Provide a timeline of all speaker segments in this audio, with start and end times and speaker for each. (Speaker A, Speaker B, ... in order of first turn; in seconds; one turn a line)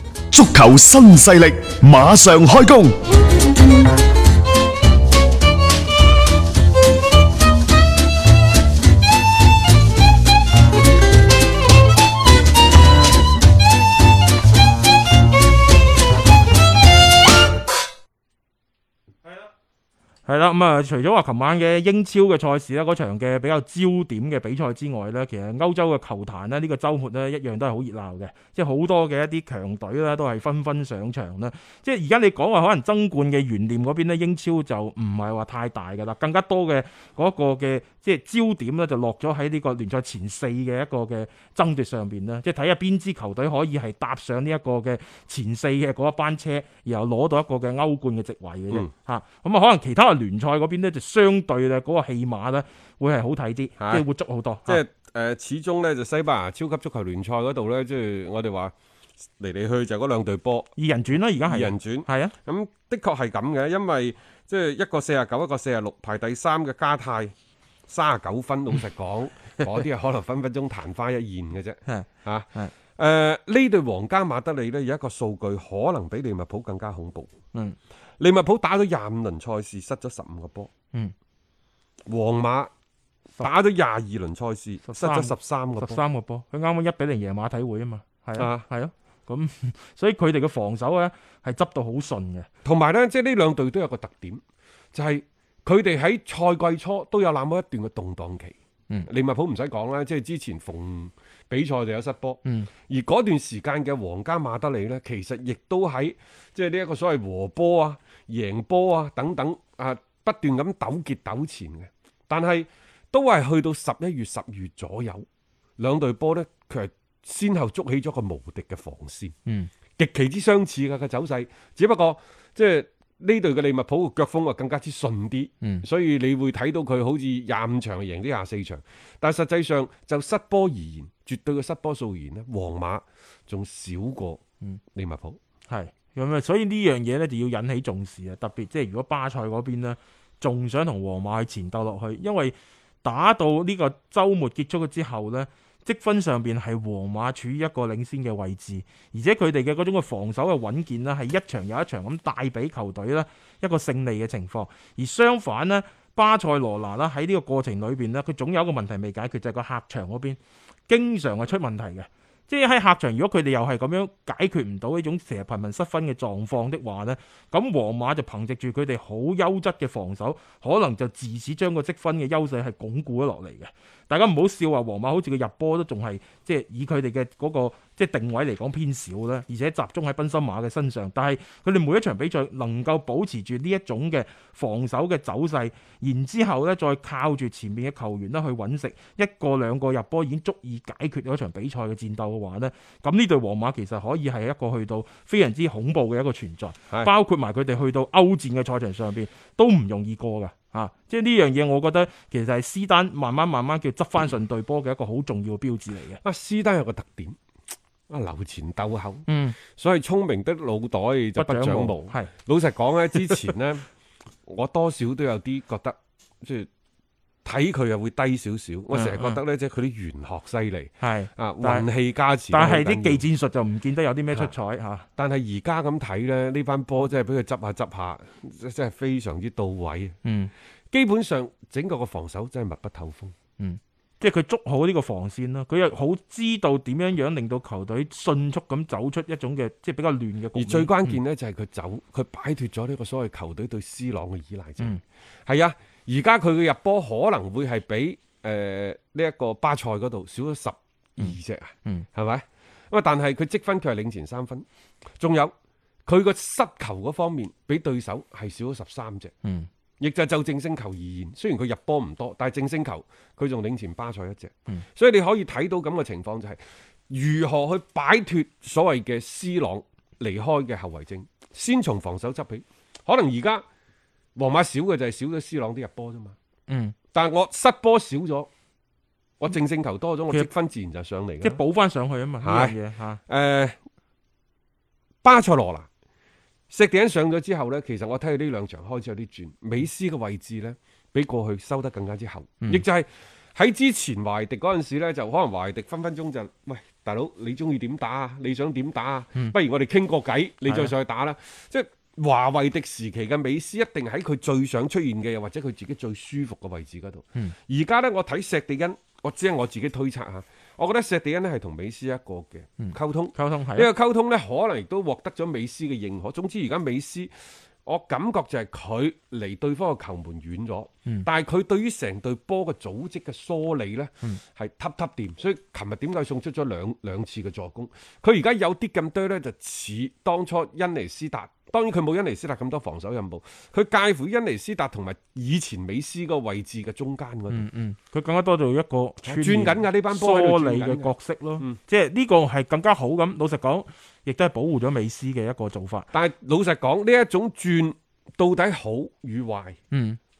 Speaker A: 0.3-3.0
Speaker B: 20.3-54.8
Speaker C: 53.8-54.0
Speaker C: 54.7-58.7
Speaker C: 59.4-60.7
Speaker B: 60.8-62.4
Speaker C: 61.5-67.3
Speaker C: 67.9-77.3
Speaker B: 71.9-72.7
Speaker C: 78.2-80.7
Speaker C: 82.1-82.7
Speaker C: 83.4-86.0
Speaker B: 84.9-92.5
Speaker C: 88.4-88.6
Speaker C: 92.6-94.4
Speaker C: 94.9-98.5
Speaker C: 99.1-115.3
Speaker C: 115.8-119.3
Speaker B: 119.5-119.7
Speaker C: 120.0-134.4
Speaker B: 125.6-125.9
Speaker C: 134.9-135.4
Speaker B: 135.7-206.2
Speaker C: 206.2-207.4
Speaker C: 208.1-213.9
Speaker B: 209.3-209.6
Speaker B: 211.4-212.3
Speaker C: 214.5-216.7
Speaker C: 217.4-223.2
Speaker B: 218.9-219.4
Speaker B: 221.0-221.9
Speaker B: 222.5-225.1
Speaker C: 225.2-230.2
Speaker B: 230.2-230.5
Speaker C: 230.9-233.3
Speaker B: 233.6-241.2
Speaker C: 240.6-254.7
Speaker B: 251.2-252.1
Speaker C: 255.2-255.5
Speaker C: 256.1-259.3
Speaker B: 259.4-259.7
Speaker C: 260.0-273.6
Speaker C: 274.4-276.4
Speaker B: 276.7-276.9
Speaker C: 277.1-278.5
Speaker C: 279.4-281.6
Speaker B: 281.4-283.2
Speaker C: 282.4-283.8
Speaker C: 285.2-285.9
Speaker C: 286.7-317.3
Speaker B: 312.8-313.9
Speaker C: 317.9-337.7
Speaker B: 337.5-346.1
Speaker C: 339.2-341.8
Speaker C: 346.1-349.8
Speaker B: 349.9-350.2